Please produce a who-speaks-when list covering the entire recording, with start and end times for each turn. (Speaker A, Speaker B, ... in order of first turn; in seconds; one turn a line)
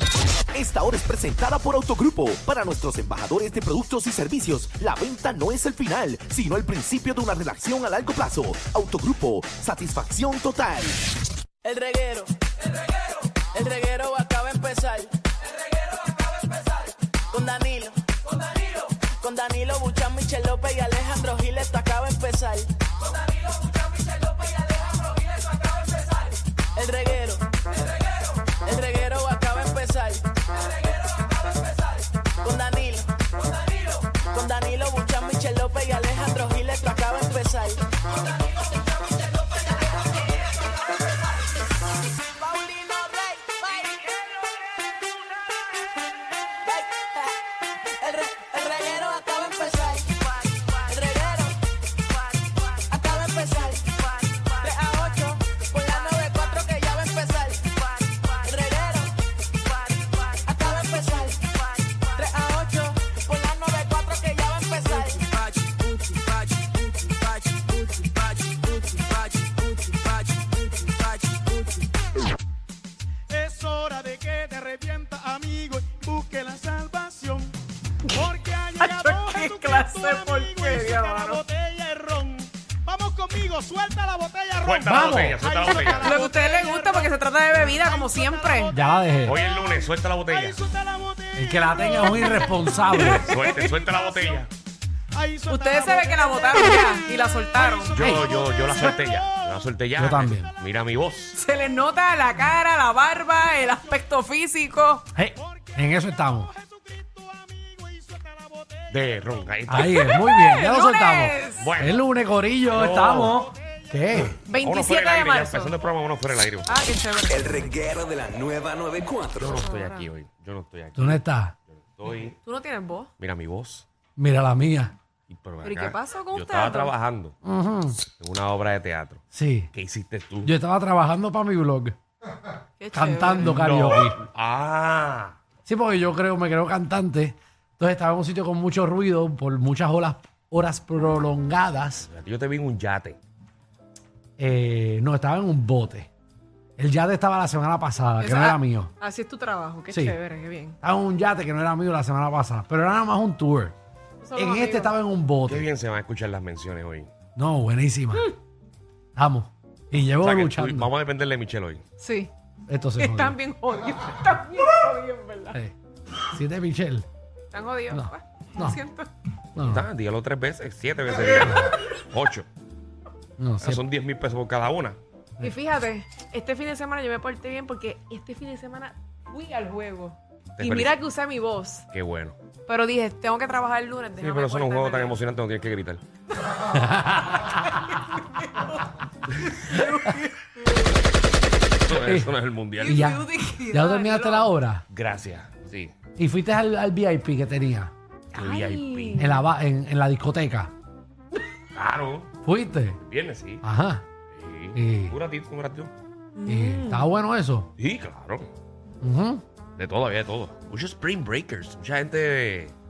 Speaker A: 0.5-11.0
Speaker B: 11.6-12.3
Speaker B: 13.5-15.1
Speaker B: 17.3-18.0
Speaker B: 19.2-22.7
Speaker B: 26.7-27.5
Speaker B: 28.6-30.3
Speaker B: 32.4-33.2
Speaker B: 34.1-37.8
Speaker B: 42.4-44.1
Speaker B: 46.6-47.4
Speaker B: 48.0-51.6
Speaker B: 52.6-59.2
Speaker B: 59.7-71.6
Speaker C: 73.3-77.5
Speaker C: 78.2-88.9
Speaker D: 78.8-81.4
Speaker E: 84.6-86.2
Speaker F: 84.8-85.4
Speaker D: 85.8-88.8
Speaker F: 88.7-89.4
Speaker E: 89.2-90.6
Speaker C: 90.3-92.9
Speaker F: 91.4-93.3
Speaker D: 92.9-93.4
Speaker E: 93.2-94.5
Speaker C: 93.5-94.5
Speaker C: 95.1-97.0
Speaker D: 95.5-98.0
Speaker C: 97.5-99.8
Speaker E: 97.9-101.4
Speaker F: 98.0-98.3
Speaker F: 100.0-100.5
Speaker D: 101.3-105.1
Speaker F: 105.2-106.5
Speaker C: 105.4-105.8
Speaker C: 106.4-109.7
Speaker E: 108.9-110.2
Speaker F: 109.7-114.4
Speaker D: 109.8-111.7
Speaker E: 111.5-112.0
Speaker E: 112.7-113.4
Speaker C: 113.4-114.0
Speaker E: 114.2-116.7
Speaker D: 114.4-115.8
Speaker D: 116.7-117.7
Speaker A: 117.3-119.6
Speaker E: 119.4-121.2
Speaker D: 119.5-120.1
Speaker F: 121.0-121.5
Speaker E: 121.8-122.4
Speaker D: 122.4-123.1
Speaker E: 123.2-123.9
Speaker F: 124.2-124.9
Speaker E: 125.3-127.3
Speaker D: 125.6-126.9
Speaker F: 127.4-128.0
Speaker E: 128.2-129.2
Speaker F: 129.3-129.7
Speaker E: 129.7-130.5
Speaker F: 130.4-131.9
Speaker D: 132.8-133.6
Speaker F: 132.9-134.2
Speaker E: 133.4-135.4
Speaker F: 135.7-142.1
Speaker E: 142.1-143.2
Speaker F: 144.4-146.1
Speaker F: 146.8-148.9
Speaker D: 148.2-150.8
Speaker F: 149.9-150.2
Speaker F: 150.8-153.8
Speaker D: 154.2-154.9
Speaker F: 154.4-155.7
Speaker E: 155.4-157.1
Speaker F: 157.4-158.3
Speaker F: 159.2-160.9
Speaker E: 160.1-161.8
Speaker D: 162.0-162.3
Speaker F: 162.7-163.4
Speaker D: 163.0-165.6
Speaker F: 166.3-167.1
Speaker D: 167.5-169.1
Speaker F: 167.9-168.8
Speaker F: 169.6-169.9
Speaker E: 169.6-172.5
Speaker F: 173.4-173.8
Speaker E: 173.6-175.0
Speaker D: 175.4-181.9
Speaker E: 180.6-181.0
Speaker E: 181.9-182.4
Speaker D: 182.7-185.2
Speaker E: 184.2-186.0
Speaker F: 186.6-187.6
Speaker D: 187.4-190.9
Speaker E: 191.8-193.2
Speaker F: 191.9-194.8
Speaker D: 192.8-194.5
Speaker E: 194.9-195.9
Speaker F: 196.2-197.9
Speaker E: 198.3-199.2
Speaker D: 198.3-199.5
Speaker F: 199.2-200.7
Speaker E: 201.8-202.3
Speaker F: 202.4-203.0
Speaker E: 203.0-203.6
Speaker F: 203.6-204.0
Speaker E: 204.3-205.9
Speaker F: 204.7-205.2
Speaker D: 206.4-207.1
Speaker F: 206.5-207.7
Speaker E: 207.8-208.5
Speaker F: 209.0-209.4
Speaker E: 209.8-212.7